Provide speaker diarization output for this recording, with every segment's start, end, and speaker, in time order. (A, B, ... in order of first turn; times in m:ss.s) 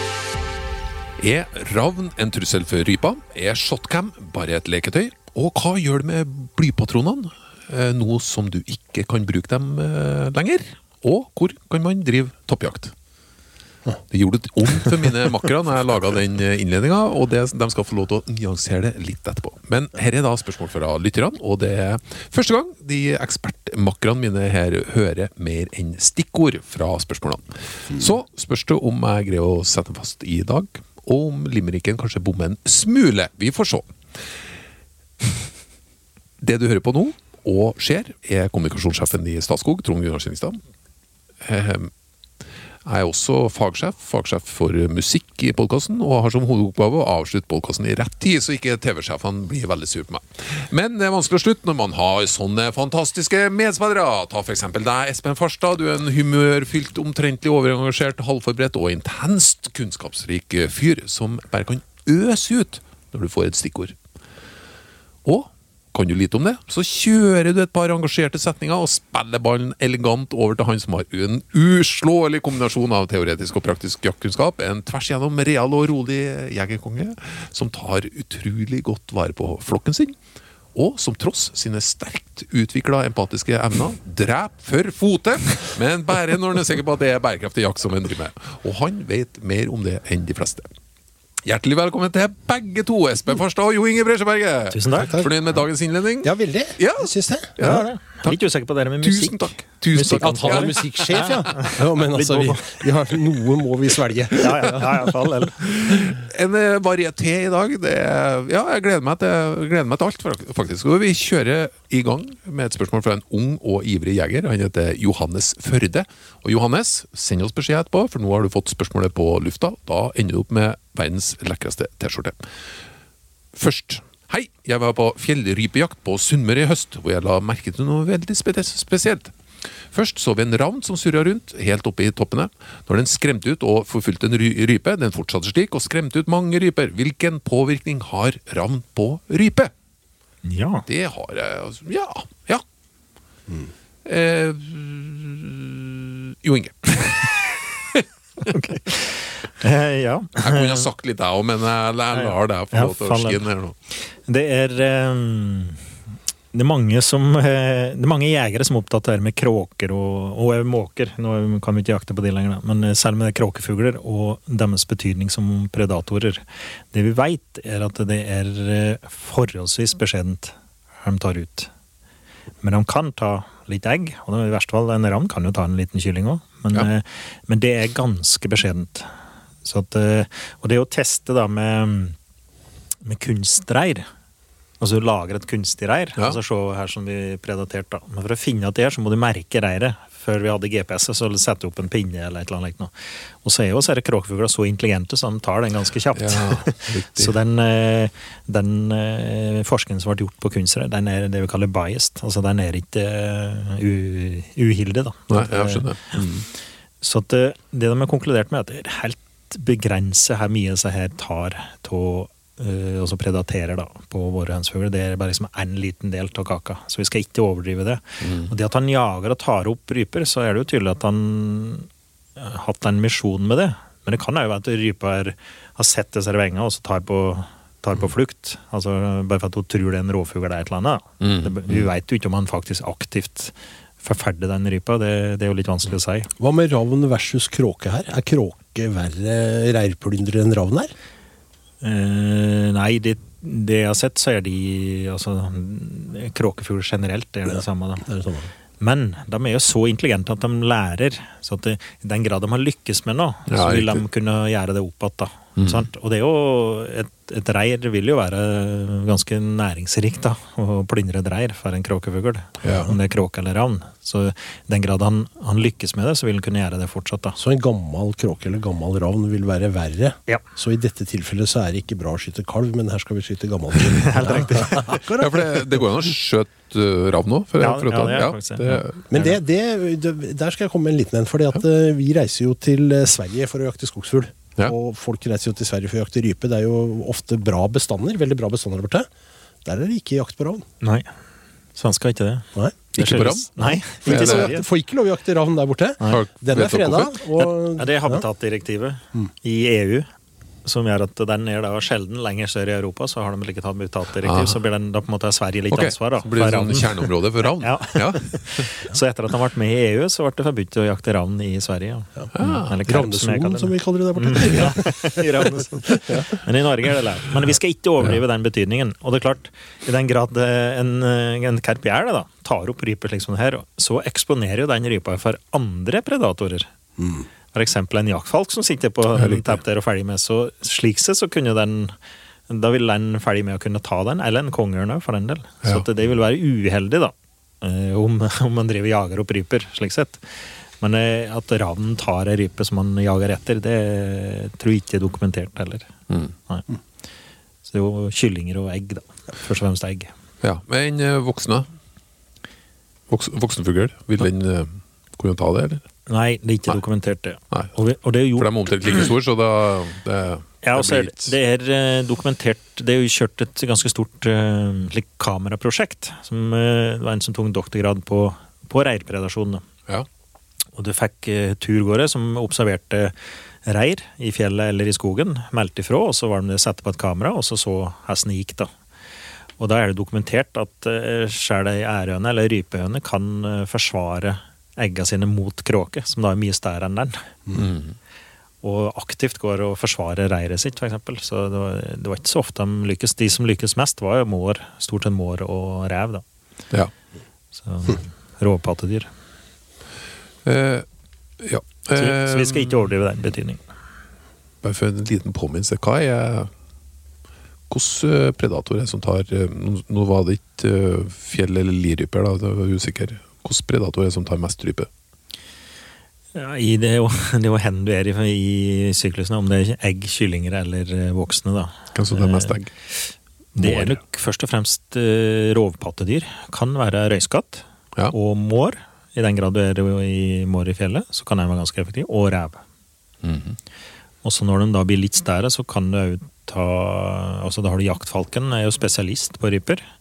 0:01.2-0:12.9 A
0:14.1-0:33.9 A
0:36.4-0:40.6 A
0:41.4-0:41.9 A
0:42.8-1:04.0 A
1:05.2-1:20.2 A
1:20.8-1:30.7 A
1:31.4-1:38.4 A
1:34.7-1:35.3 B
1:35.0-1:35.3 C
1:36.2-1:37.5 C
1:37.6-1:42.8 B
1:39.0-1:41.1 A
1:40.2-1:44.9 C
1:44.4-1:45.6 B
1:45.6-2:02.4 A
2:03.5-2:09.3 A
2:09.9-2:19.7 A
2:20.4-2:20.8 B
2:20.9-2:22.6 A
2:24.0-2:28.5 A
2:28.4-2:30.8 B
2:30.4-2:33.8 A
2:32.1-2:35.8 B
2:36.5-2:51.7 B
2:52.6-2:59.1 B
2:59.6-3:02.2 B
3:03.0-3:04.1 B
3:04.8-3:26.2 B
3:16.2-3:17.3 A
3:25.3-3:26.5 A
3:27.0-3:56.3 B
3:38.2-3:38.5 A
3:51.2-3:51.9 A
3:56.4-4:00.9 C
4:01.8-4:08.1 B
4:08.0-4:08.5 C
4:08.8-4:27.4 B
4:13.5-4:14.0 A
4:15.6-4:15.8 A
4:22.6-4:22.9 A
4:27.4-4:35.9 C
4:33.9-4:35.0 B
4:35.2-4:39.3 A
4:37.6-4:38.8 B
4:39.1-4:49.1 C
4:49.6-4:50.7 C
4:50.8-4:51.1 B
4:51.8-4:54.6 B
4:53.0-4:54.5 A
4:54.0-4:58.2 C
4:56.1-4:57.2 A
4:57.8-5:00.1 B
5:00.6-5:26.7 B
5:04.2-5:04.6 A
5:05.7-5:08.7 A
5:12.4-5:12.7 A
5:12.8-5:15.3 C
5:15.9-5:16.3 C
5:27.0-5:27.2 C
5:27.5-5:32.0 B
5:29.2-5:29.6 A
5:32.5-5:45.9 B
5:47.7-5:50.1 B
5:50.4-5:51.7 A
5:53.1-5:55.8 A
5:56.1-5:59.1 B
5:58.4-6:01.3 A
6:00.6-6:09.6 B
6:10.8-6:18.7 B
6:19.6-6:27.3 B
6:27.5-6:28.0 A
6:28.6-6:36.2 B
6:37.5-6:39.1 B
6:40.4-6:40.9 A
6:41.4-6:42.8 A
6:42.0-6:43.6 B
6:44.6-6:46.5 A
6:47.7-6:54.9 A
6:56.3-7:02.6 B
7:02.0-7:02.7 A
7:03.6-7:12.6 B
7:03.6-7:04.0 A
7:13.2-7:13.6 A
7:14.2-7:19.8 B